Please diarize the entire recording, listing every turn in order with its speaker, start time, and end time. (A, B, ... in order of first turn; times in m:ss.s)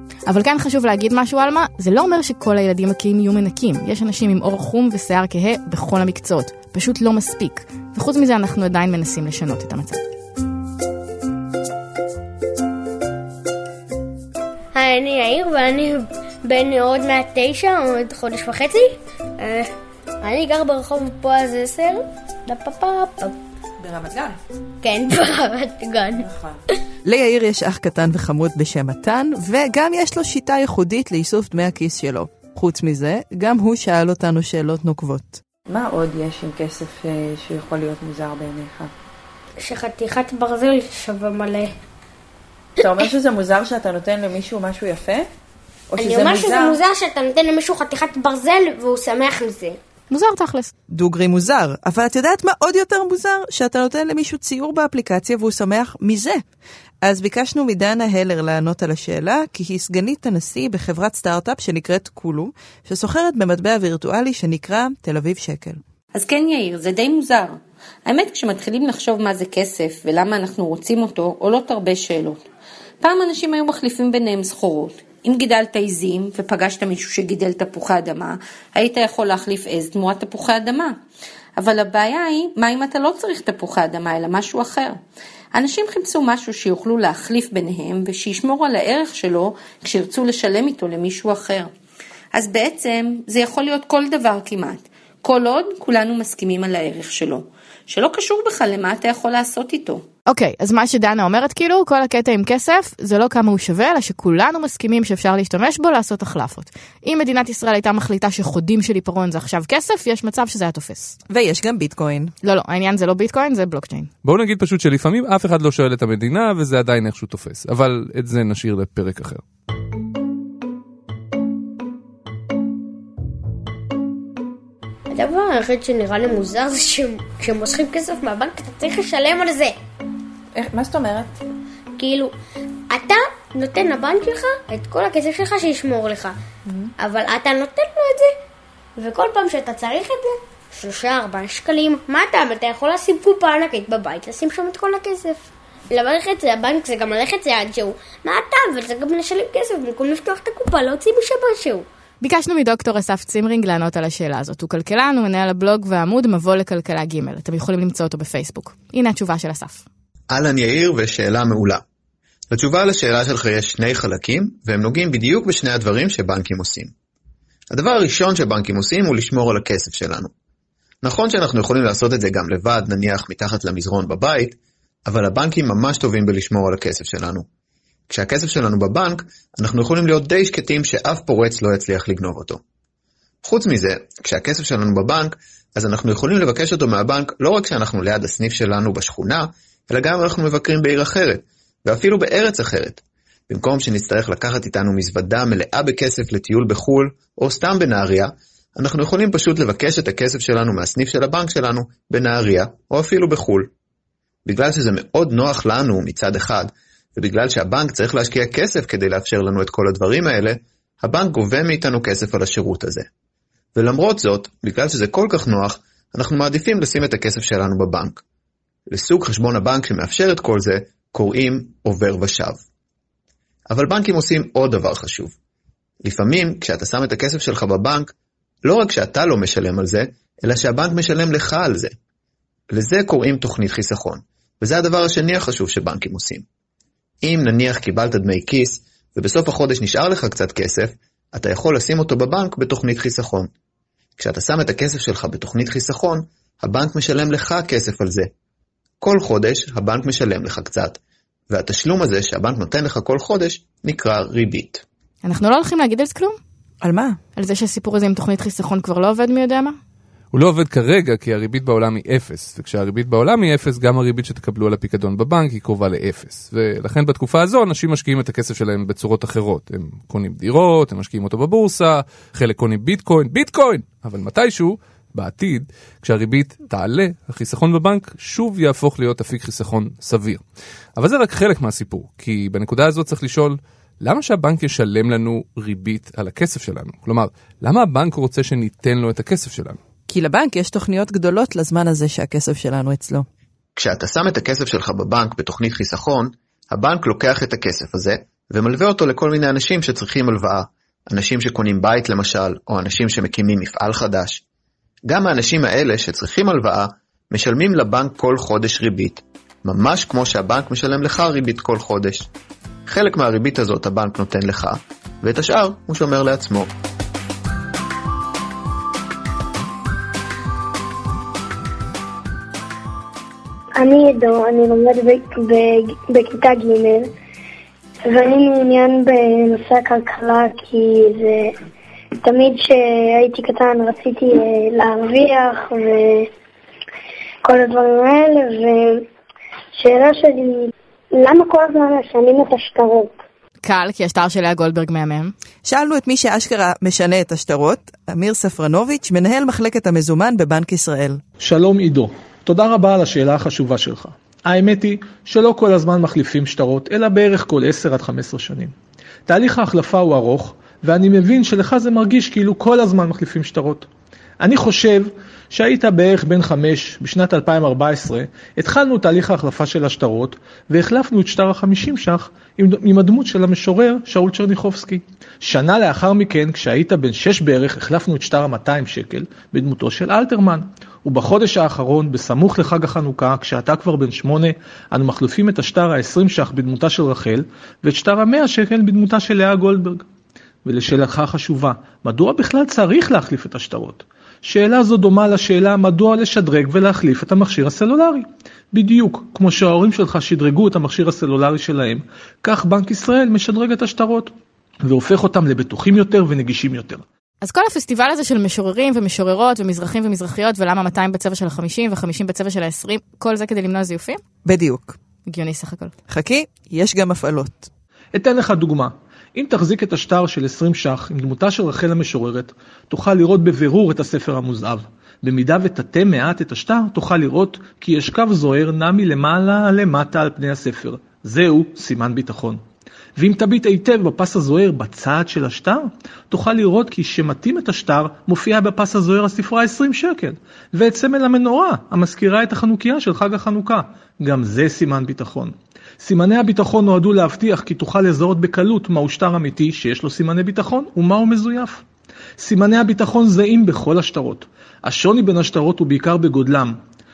0:00.3-0:10.0 A
0:14.7-0:19.7 B
0:20.2-0:23.4 B
0:23.8-0:24.4 C
0:24.8-0:26.3 B
0:27.0-0:35.4 C
0:35.7-0:38.9 D
0:39.6-0:41.7 B
0:42.8-0:45.3 D
0:45.9-0:46.7 D
0:46.0-0:49.8 B
0:50.1-0:50.7 A
0:50.9-0:56.4 C
0:57.0-1:05.8 C
1:06.1-1:12.4 E
1:13.0-1:21.0 E
1:21.6-1:25.0 E
1:25.5-1:31.7 E
1:32.3-1:40.0 E
1:40.3-1:51.2 A
1:51.3-1:52.3 C
1:52.4-1:54.1 A
1:54.2-1:59.4 F
2:05.1-2:09.8 B
2:10.6-2:11.3 D
2:12.0-2:12.3 B
2:12.9-2:16.4 B
2:17.0-2:18.3 B
2:19.0-2:31.9 B
2:32.2-2:39.8 A
2:40.3-2:41.8 G
2:42.5-2:46.9 G
2:47.7-2:50.3 G
2:51.0-2:57.5 G
2:58.1-3:02.6 G
3:03.4-3:23.7 G
3:24.5-3:33.1 G
3:33.8-3:38.2 G
3:38.9-3:42.6 G
3:43.7-3:45.3 G
3:46.0-3:48.1 G
3:48.6-3:51.9 G
3:52.7-3:56.4 G
3:57.2-4:03.5 G
4:04.2-4:08.3 G
4:09.0-4:11.0 G
4:11.5-4:14.8 G
4:15.2-4:16.4 A
4:16.8-4:17.2 C
4:17.4-4:19.8 A
4:20.3-4:40.4 F
4:41.0-4:49.8 F
4:50.1-4:53.3 C
4:53.8-5:04.4 G
5:05.1-5:12.3 G
5:12.9-5:16.7 G
5:23.8-5:27.1 H
5:28.0-5:31.6 H
5:32.2-5:36.3 H
5:37.4-5:39.1 H
5:39.8-5:43.2 H
5:43.6-5:45.3 A
5:45.6-5:51.2 C
5:51.4-5:58.7 I
5:59.3-6:03.9 I
6:04.4-6:30.0 I
6:30.6-6:44.3 I
6:44.8-6:47.0 I
6:47.4-6:54.2 A
6:54.4-6:55.0 C
6:55.3-6:55.9 A
6:56.1-6:57.7 C
6:58.1-7:12.6 I
7:13.2-7:31.8 I
7:32.4-7:36.8 I